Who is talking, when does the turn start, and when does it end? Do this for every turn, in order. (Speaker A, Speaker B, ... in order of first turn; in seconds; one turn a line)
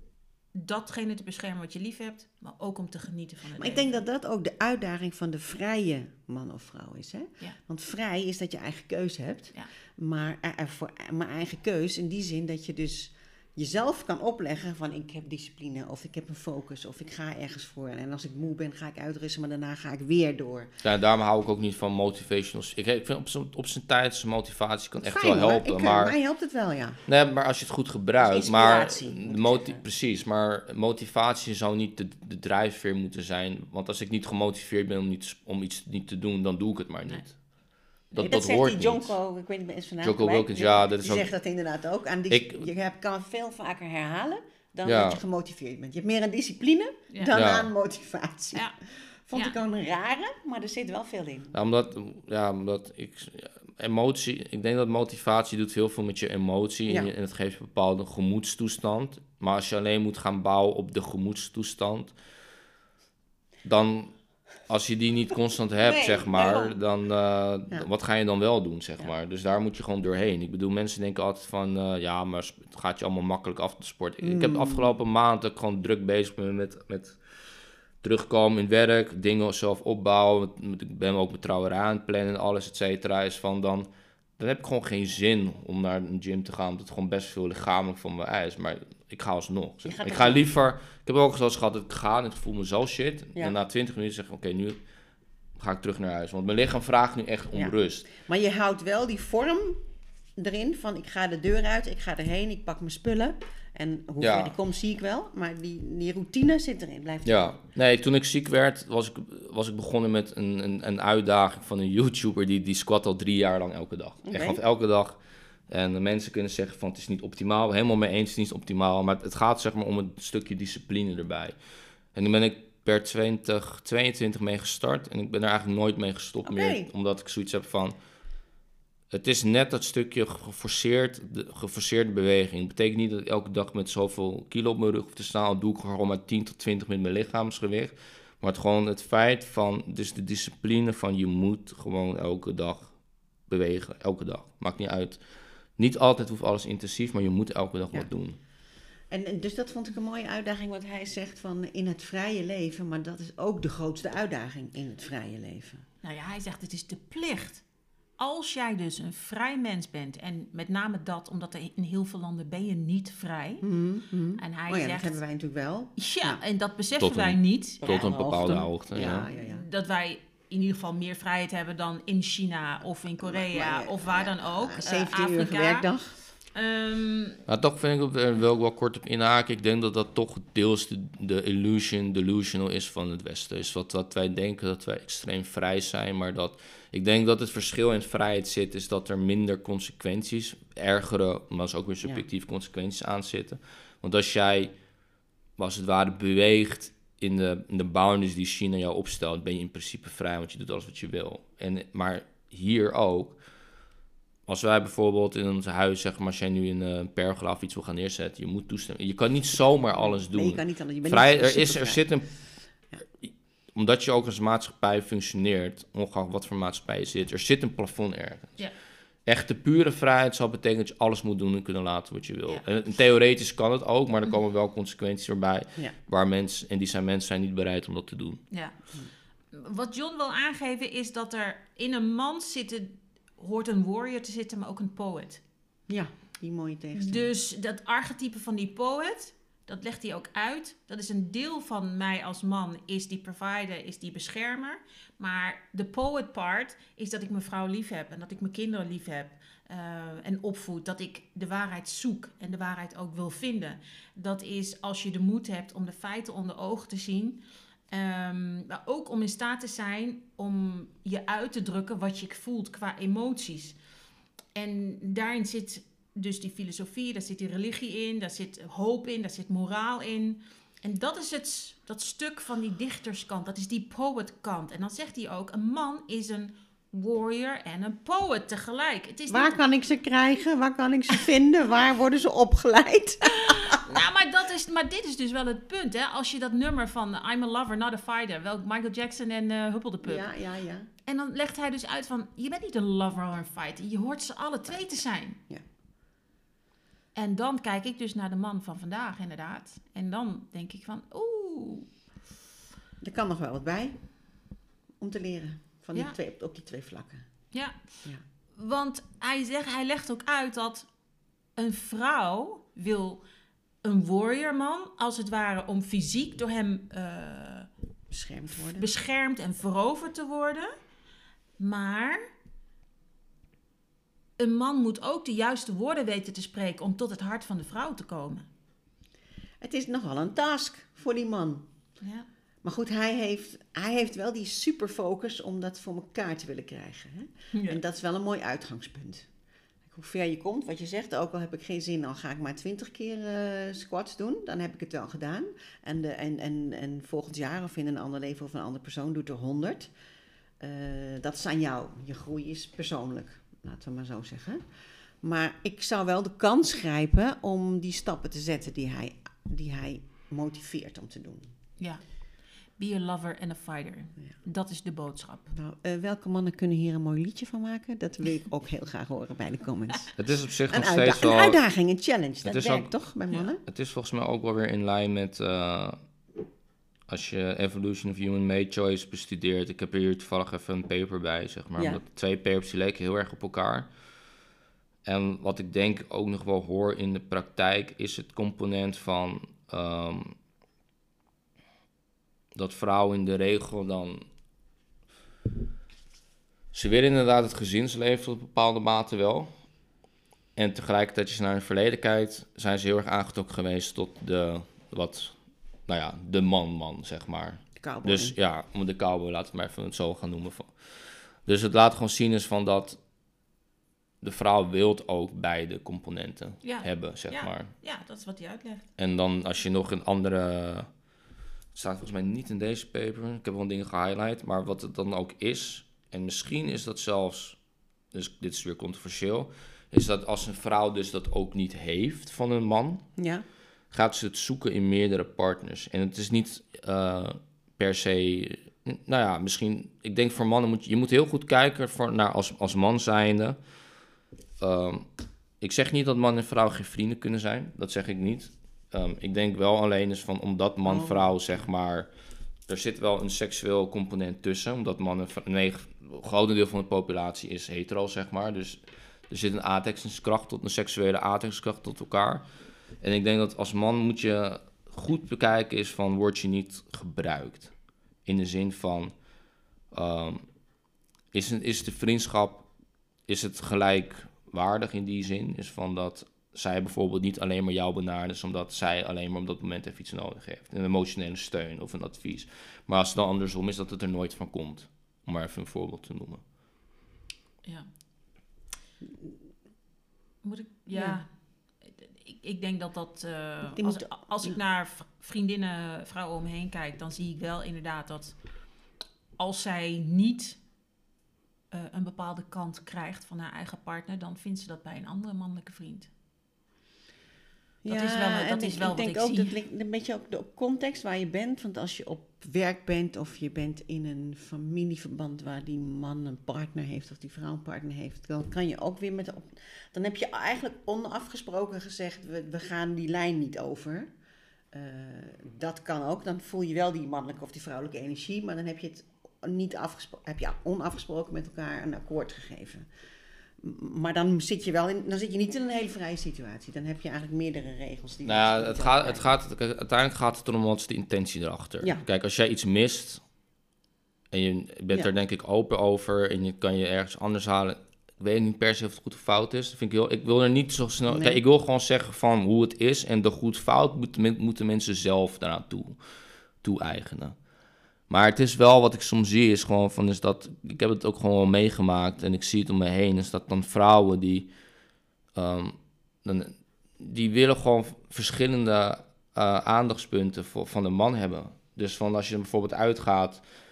Speaker A: 0.5-4.0
Speaker B: 3.6-20.7
Speaker C: 20.8-26.1
Speaker B: 25.0-27.0
Speaker C: 27.1-37.4
Speaker B: 28.2-29.8
Speaker C: 38.1-39.1
Speaker B: 38.2-48.6
Speaker C: 40.0-41.3
Speaker C: 42.3-42.6
Speaker C: 44.8-45.2
Speaker C: 47.3-47.7
Speaker B: 49.3-51.5
Speaker C: 51.5-62.1
Speaker C: 63.6-64.1
Speaker C: 64.7-77.2
Speaker B: 65.8-66.8
Speaker B: 74.2-74.9
Speaker C: 78.0-94.8
Speaker B: 89.8-90.5
Speaker C: 95.6-98.1
Speaker B: 97.5-99.8
Speaker B: 100.4-107.6
Speaker C: 104.2-104.5
Speaker C: 107.2-121.5
Speaker B: 114.2-114.6
Speaker C: 122.1-128.0
Speaker B: 126.4-126.9
Speaker C: 129.1-142.9
Speaker C: 143.5-145.2
Speaker C: 145.8-148.4
Speaker B: 149.1-155.8
Speaker A: 156.0-157.6
Speaker A: 158.2-163.7
Speaker B: 163.6-166.4
Speaker A: 164.4-165.2
Speaker A: 166.0-175.9
Speaker C: 167.0-169.3
Speaker B: 167.8-169.6
Speaker B: 173.2-176.2
Speaker A: 176.5-177.4
Speaker C: 177.5-194.7
Speaker C: 195.6-203.4
Speaker C: 204.5-212.3
Speaker B: 210.0-212.1
Speaker C: 213.2-218.6
Speaker C: 219.2-228.4
Speaker A: 229.5-235.4
Speaker B: 235.9-237.3
Speaker A: 236.9-263.8
Speaker A: 264.5-279.6
Speaker B: 279.3-283.8
Speaker A: 283.2-290.3
Speaker B: 290.0-290.9
Speaker A: 291.1-295.4
Speaker A: 297.1-301.9
Speaker B: 303.0-304.0
Speaker B: 305.0-307.2
Speaker A: 307.5-307.8
Speaker A: 308.5-310.9
Speaker A: 311.6-313.2
Speaker A: 313.8-317.7
Speaker B: 318.1-318.9
Speaker A: 318.8-320.7
Speaker A: 321.6-322.3
Speaker A: 324.4-328.4
Speaker B: 329.6-331.7
Speaker A: 332.0-332.3
Speaker B: 332.6-339.3
Speaker A: 337.5-337.8
Speaker B: 339.9-349.9
Speaker B: 350.6-354.6
Speaker B: 355.2-361.5
Speaker A: 362.8-365.5
Speaker B: 365.5-370.1
Speaker C: 370.2-371.6
Speaker B: 370.7-373.6
Speaker C: 372.4-372.9
Speaker C: 373.6-375.9
Speaker C: 377.1-383.9
Speaker C: 385.0-390.3
Speaker C: 392.5-394.2
Speaker C: 396.7-399.5
Speaker C: 400.6-405.3
Speaker C: 405.9-410.7
Speaker B: 407.8-408.3
Speaker C: 411.4-413.0
Speaker C: 414.2-417.7
Speaker A: 416.6-418.8
Speaker C: 419.0-420.9
Speaker C: 421.7-427.6
Speaker C: 428.1-433.0
Speaker B: 433.2-433.4
Speaker C: 433.9-443.6
Speaker C: 444.6-445.1
Speaker C: 445.6-452.1
Speaker B: 450.9-451.6
Speaker C: 452.7-462.4
Speaker C: 463.0-467.7
Speaker C: 468.2-469.1
Speaker C: 469.9-470.4
Speaker C: 471.3-472.7
Speaker C: 473.3-486.4
Speaker A: 490.4-491.3
Speaker B: 490.9-491.2
Speaker A: 491.8-498.3
Speaker B: 493.7-494.5
Speaker A: 499.4-500.6
Speaker A: 501.7-506.1
Speaker B: 507.8-524.1
Speaker A: 507.9-509.5
Speaker B: 524.7-532.9
Speaker B: 533.6-539.3
Speaker C: 538.2-543.2
Speaker C: 544.3-556.0
Speaker B: 551.1-551.4
Speaker C: 556.6-557.3
Speaker C: 558.1-564.5
Speaker C: 565.3-573.4